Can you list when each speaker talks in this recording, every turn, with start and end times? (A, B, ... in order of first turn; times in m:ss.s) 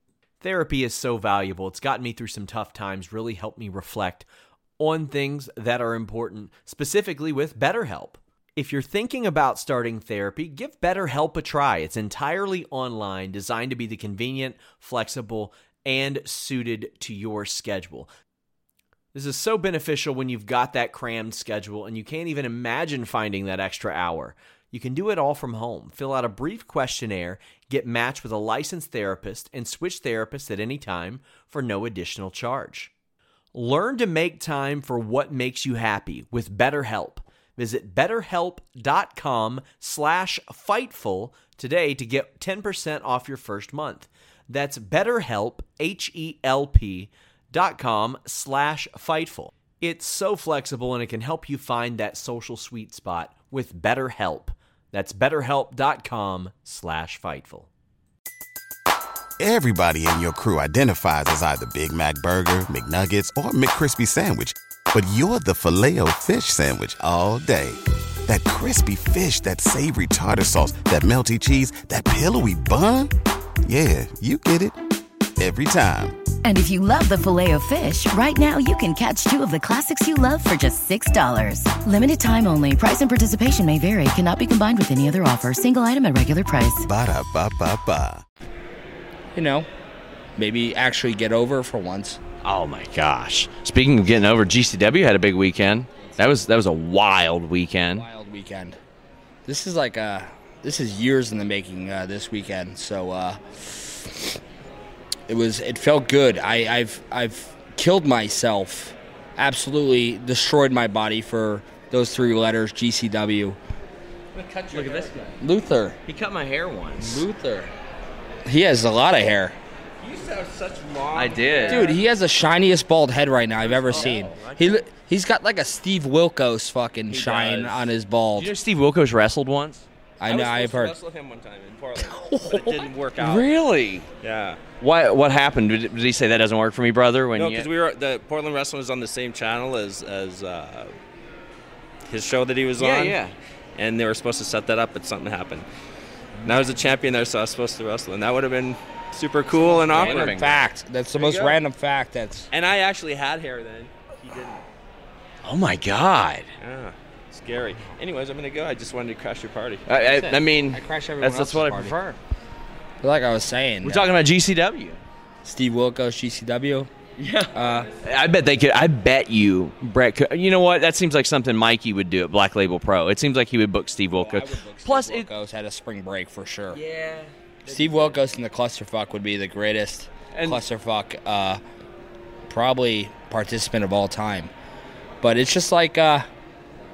0:00.4-0:04.3 A
0:04.8-0:18.1 A
0:19.1-0:32.9 A
0:33.5-0:57.7 A
0:59.4-1:13.1 B
1:13.6-1:14.8 B
1:15.4-1:16.2 B
1:16.4-1:26.8 C
1:26.8-1:28.2 B
1:29.3-1:29.7 D
1:30.4-1:32.2 D
1:32.4-1:38.0 E
1:36.0-1:36.3 D
1:37.9-1:38.8 D
1:39.4-1:44.4 D
1:45.3-1:53.6 D
1:54.4-1:55.2 F
1:54.7-1:55.3 E
1:55.4-1:56.0 D
1:56.0-1:57.3 E
1:57.0-1:57.7 D
1:58.4-1:59.6 D
2:00.0-2:01.9 F
2:01.1-2:01.9 E
2:01.7-2:08.5 D
2:03.7-2:04.4 F
2:03.9-2:04.7 E
2:07.1-2:09.8 E
2:10.2-2:10.9 D
2:10.2-2:13.5 F
2:12.0-2:12.8 D
2:12.6-2:14.1 E
2:14.2-2:14.6 F
2:14.8-2:17.7 E
2:17.3-2:20.9 F
2:22.1-2:23.2 F
2:22.8-2:23.3 E
2:23.8-2:25.6 F
2:26.4-2:30.5 F
2:29.5-2:32.5 D
2:29.9-2:30.6 E
2:31.2-2:31.6 F
2:32.5-2:34.6 F
2:35.4-2:36.5 E
2:36.6-2:40.4 F
2:39.8-2:42.2 E
2:40.7-2:42.0 D
2:43.0-2:44.1 D
2:43.8-2:45.0 E
2:45.4-2:46.9 D
2:47.2-2:55.3 E
2:47.5-2:47.9 D
2:54.1-2:56.8 D
2:56.7-2:58.2 E
2:57.6-3:01.6 D
3:00.3-3:00.6 E
3:02.5-3:04.5 D
3:05.2-3:06.3 D